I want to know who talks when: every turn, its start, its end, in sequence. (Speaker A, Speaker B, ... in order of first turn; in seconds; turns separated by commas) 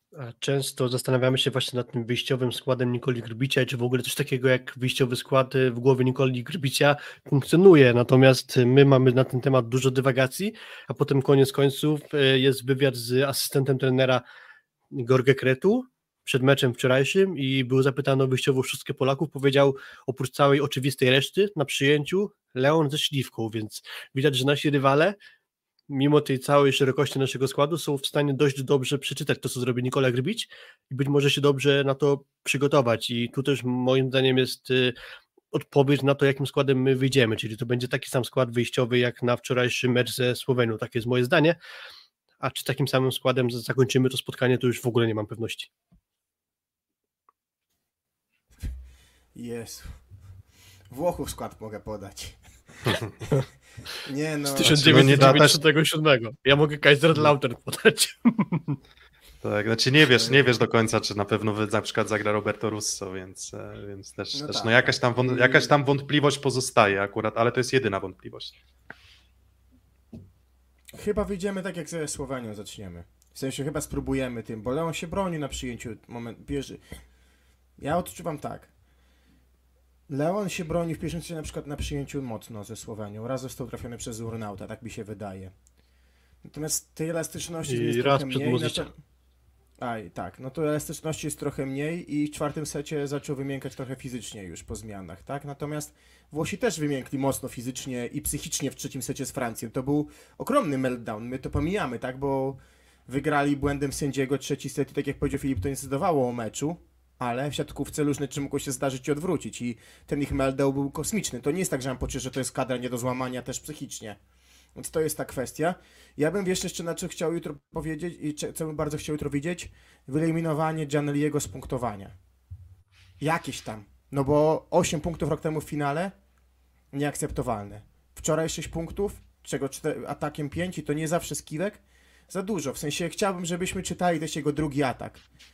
Speaker A: 0.1-14.2, Speaker A: 14.9-25.2, Speaker A: 25.9-35.0, Speaker A: 35.5-41.6, Speaker A: 42.4-45.7, Speaker B: 49.3-50.0, Speaker B: 50.9-53.0, Speaker B: 54.0-55.4, Speaker A: 54.5-58.8, Speaker C: 54.7-55.6, Speaker C: 59.4-68.5, Speaker B: 60.1-60.4, Speaker B: 64.3-65.7, Speaker B: 70.9-76.8, Speaker B: 77.8-78.7, Speaker B: 80.1-85.5, Speaker B: 86.4-88.9, Speaker A: 87.7-88.9, Speaker B: 89.8-114.2, Speaker B: 114.8-122.2, Speaker B: 123.2-126.1, Speaker B: 126.9-135.2